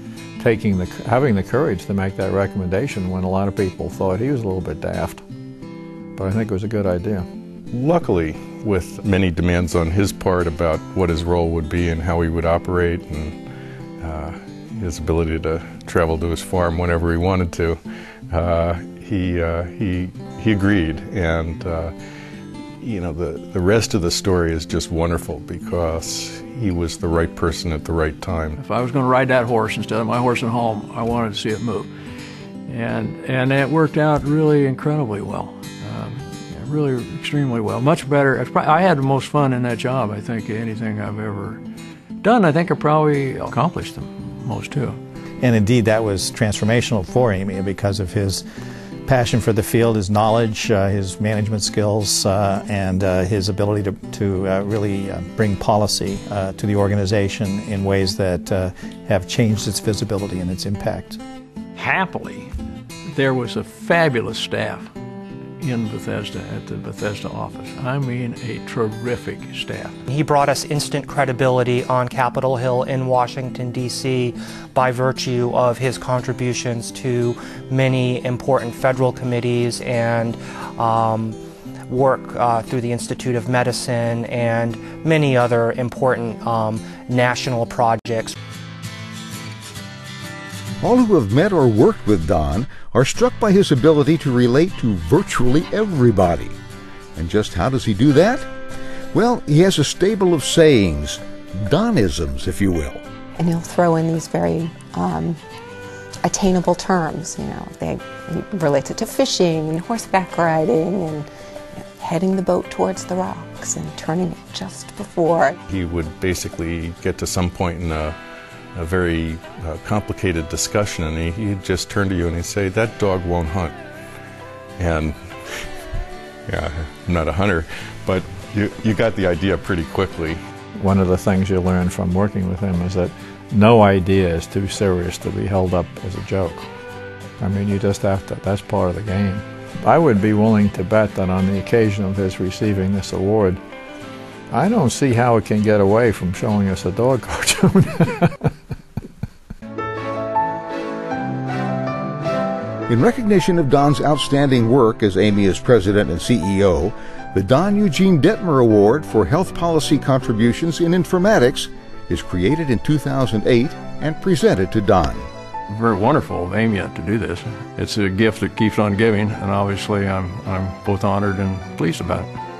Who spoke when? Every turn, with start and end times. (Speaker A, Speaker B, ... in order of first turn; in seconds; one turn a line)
Speaker A: 0.4-5.2
Speaker A: 6.1-7.2
Speaker B: 7.7-13.4
Speaker B: 14.0-17.8
Speaker B: 18.3-21.9
Speaker B: 22.8-28.6
Speaker C: 28.6-31.9
Speaker C: 32.7-41.6
Speaker C: 42.2-45.0
Speaker D: 45.4-48.4
Speaker D: 49.0-61.2
Speaker C: 61.8-62.5
Speaker C: 63.1-64.9
Speaker C: 65.6-70.0
Speaker E: 70.1-81.4
Speaker E: 81.9-88.3
Speaker F: 90.8-96.5
Speaker F: 97.2-98.5
Speaker F: 99.1-103.0
Speaker G: 103.4-105.4
Speaker G: 106.2-115.6
Speaker B: 115.7-118.2
Speaker B: 118.7-123.7
Speaker B: 124.8-125.7
Speaker B: 126.5-130.4
Speaker A: 130.8-136.7
Speaker A: 137.4-143.6
Speaker A: 144.5-148.4
Speaker F: 152.9-165.3
Speaker C: 165.7-172.3